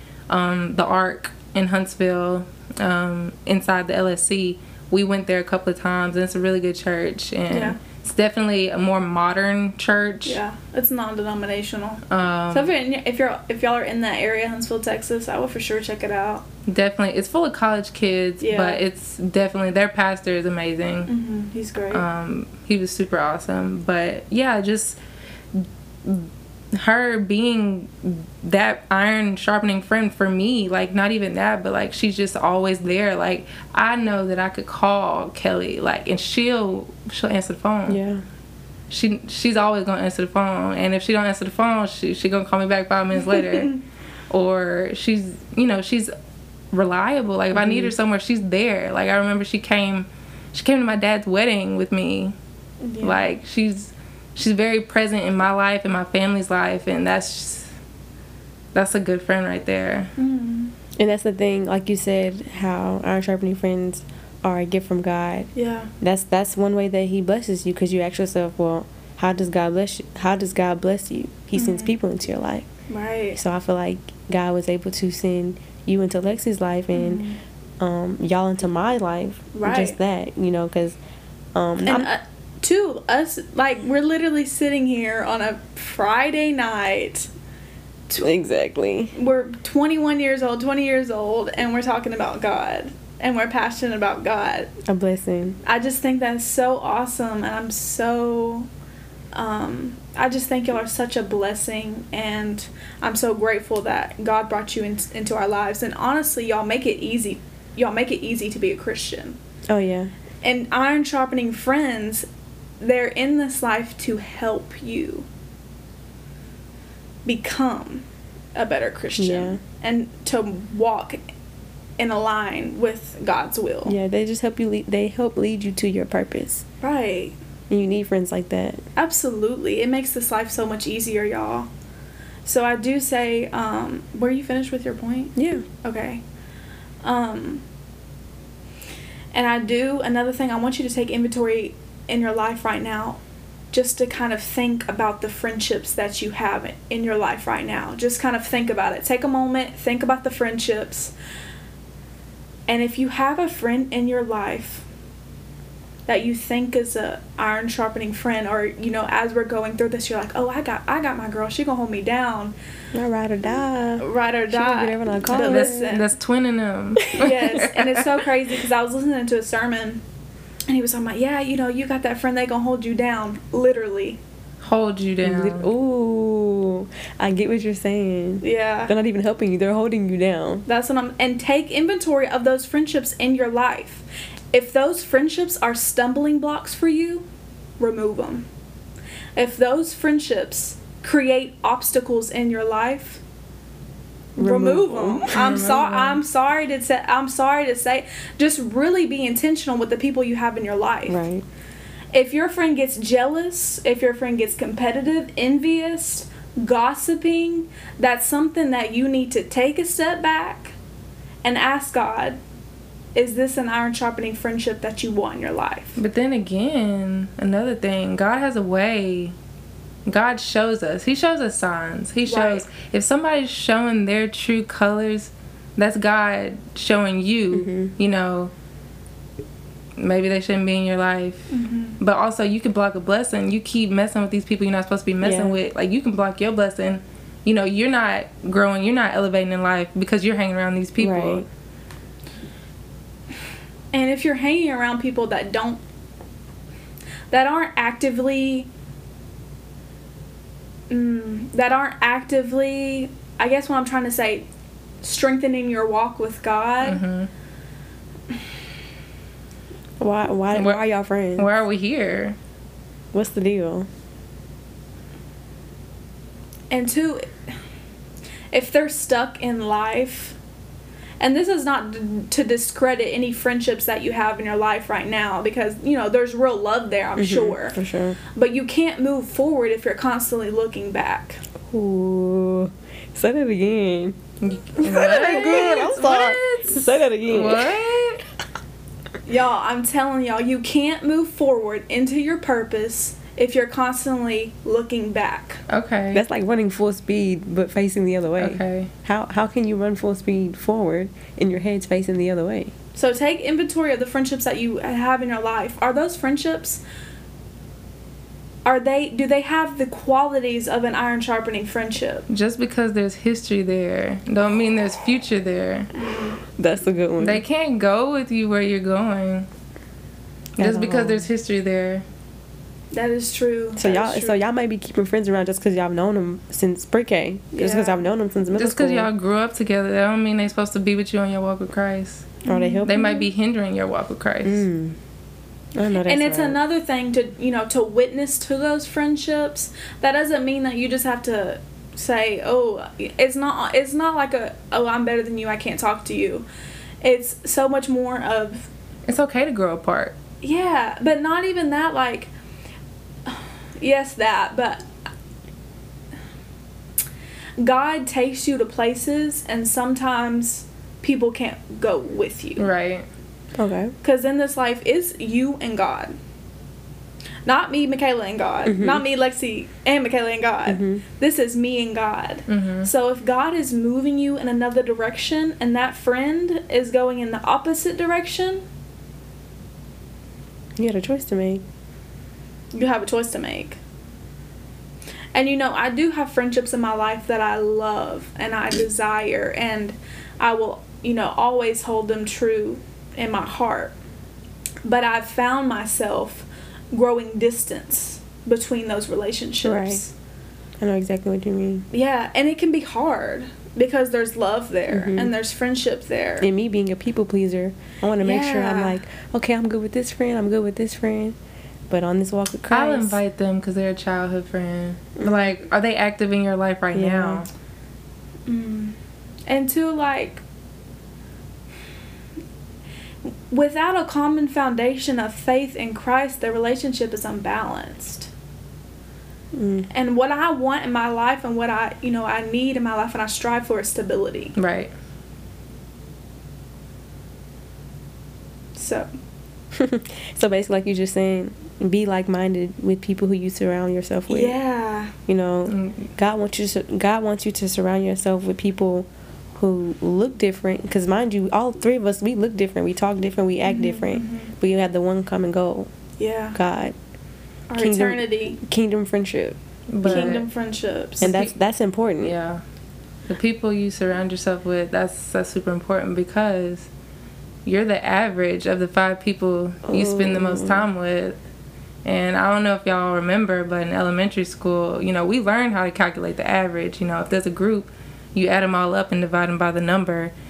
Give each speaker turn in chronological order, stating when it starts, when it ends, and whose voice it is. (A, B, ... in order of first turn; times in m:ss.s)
0:00.3-0:10.4 A
0:07.5-0:07.8 B
0:10.2-0:16.4 B
0:12.1-0:12.7 A
0:16.7-0:21.1 A
0:18.4-0:18.8 B
0:21.1-0:22.0 B
0:21.9-0:25.0 A
0:25.5-0:38.0 A
0:37.9-0:38.2 C
0:38.9-0:43.8 A
0:43.3-0:43.8 B
0:44.3-0:46.1 A
0:46.7-0:52.3 A
0:47.5-0:47.9 C
0:52.8-0:53.3 B
0:53.0-0:57.7 A
0:58.7-1:00.1 A
1:00.2-1:00.7 B
1:01.0-1:05.5 C
1:05.5-1:05.9 B
1:06.0-1:12.7 C
1:11.6-1:11.9 B
1:12.9-1:13.4 B
1:13.3-1:17.2 C
1:16.9-1:17.4 B
1:17.8-1:21.0 C
1:19.5-1:20.0 B
1:21.5-1:22.1 C
1:21.8-1:27.3 B
1:28.1-1:29.1 C
1:29.1-1:34.7 B
1:34.8-1:35.6 C
1:35.6-1:38.7 B
1:39.3-1:49.4 B
1:49.7-1:50.1 C
1:50.4-1:52.3 B
1:52.8-1:55.3 B
1:57.2-2:01.2 B
1:59.2-1:59.6 C
2:02.0-2:03.9 B
2:03.8-2:06.6 C
2:06.8-2:07.4 B
2:07.7-2:08.8 C
2:09.0-2:11.7 B
2:12.4-2:16.2 B
2:15.4-2:15.6 C
2:17.0-2:17.6 B
2:19.3-2:23.2 B
2:23.7-2:31.1 B
2:32.7-2:34.8 B
2:36.1-2:42.5 B
2:42.9-2:45.9 C
2:44.0-2:46.1 B
2:45.3-2:48.2 A
2:47.0-2:47.3 C
2:47.1-2:50.0 B
2:50.7-2:54.2 B
2:54.6-2:55.7 A
2:55.2-3:00.6 C
2:58.4-2:58.9 B
3:00.7-3:07.2 B
3:07.8-3:08.4 B
3:09.4-3:13.2 B
3:14.4-3:21.2 B
3:14.4-3:15.8 C
3:15.3-3:16.2 A
3:21.1-3:21.4 C
3:22.1-3:30.7 B
3:31.4-3:32.4 B
3:33.1-3:36.0 B
3:36.0-3:39.3 A
3:40.0-3:48.5 A
3:42.2-3:42.6 B
3:47.5-3:47.9 C
3:50.0-4:01.4 A
3:51.5-3:52.0 B
3:55.2-3:55.6 C
4:01.0-4:01.4 C
4:03.9-4:05.8 B
4:07.3-4:08.7 B
4:10.9-4:14.5 B
4:15.0-4:17.0 B
4:16.8-4:17.3 A
4:20.0-4:21.5 C
4:20.5-4:20.8 A
4:21.4-4:22.4 A
4:23.1-4:23.9 C
4:26.7-4:27.3 B
4:28.5-4:30.4 B
4:31.2-4:37.8 B
4:37.2-4:38.2 C
4:38.3-4:41.4 B
4:41.7-4:44.2 C
4:44.4-4:48.2 A
4:44.8-4:47.9 C
4:44.8-4:46.0 B
4:49.2-4:55.6 B
4:55.7-4:56.2 A
4:56.1-5:02.7 C
4:58.4-4:58.9 A
5:02.9-5:06.8 B
5:08.6-5:12.2 B
5:12.3-5:15.9 A
5:15.9-5:16.4 B
5:16.6-5:17.4 C
5:17.2-5:19.5 A
5:20.6-5:21.3 C
5:20.6-5:22.0 A
5:22.9-5:24.4 B
5:23.8-5:29.1 C
5:27.5-5:28.0 B
5:28.6-5:34.6 A
5:32.4-5:33.2 B
5:32.5-5:33.1 C
5:34.4-5:35.0 C
5:35.7-5:36.6 C
5:36.0-5:46.4 B
5:47.0-5:48.7 B
5:49.1-5:50.1 A
5:50.4-5:52.3 B
5:53.2-5:54.8 B
5:57.6-6:02.7 B
6:02.6-6:03.0 A
6:03.6-6:03.9 C
6:04.0-6:06.1 B
6:07.4-6:18.6 B
6:08.6-6:09.0 C
6:10.6-6:11.0 C
6:12.5-6:12.9 A
6:20.8-6:21.6 C
6:22.7-6:23.8 B
6:25.3-6:33.9 B
6:34.8-6:40.1 B
6:39.6-6:40.0 C
6:40.8-6:41.9 C
6:41.9-6:46.5 B
6:44.9-6:45.3 C
6:46.4-6:51.4 C
6:48.2-6:49.0 B
6:51.9-6:53.2 C
6:52.7-6:57.5 A
6:55.2-6:55.6 C
6:56.9-6:57.4 C
6:58.5-6:59.0 B
6:59.5-7:00.4 B
7:03.5-7:08.3 B
7:09.5-7:09.9 C
7:09.9-7:14.5 B
7:14.6-7:14.9 A
7:18.8-7:19.1 B
7:19.7-7:24.6 C
7:24.3-7:25.1 B
7:25.3-7:35.9 C
7:25.7-7:26.1 A
7:33.6-7:34.5 B
7:36.2-7:36.6 B
7:36.5-7:36.9 C
7:37.7-7:38.6 B
7:37.8-7:40.4 C
7:39.9-7:40.4 A
7:40.0-7:41.3 B
7:41.2-7:41.5 A
7:41.2-7:42.3 C
7:42.2-7:42.6 A
7:43.3-7:46.9 A
7:47.6-7:51.4 A
7:49.9-7:50.9 C
7:52.0-8:00.3 A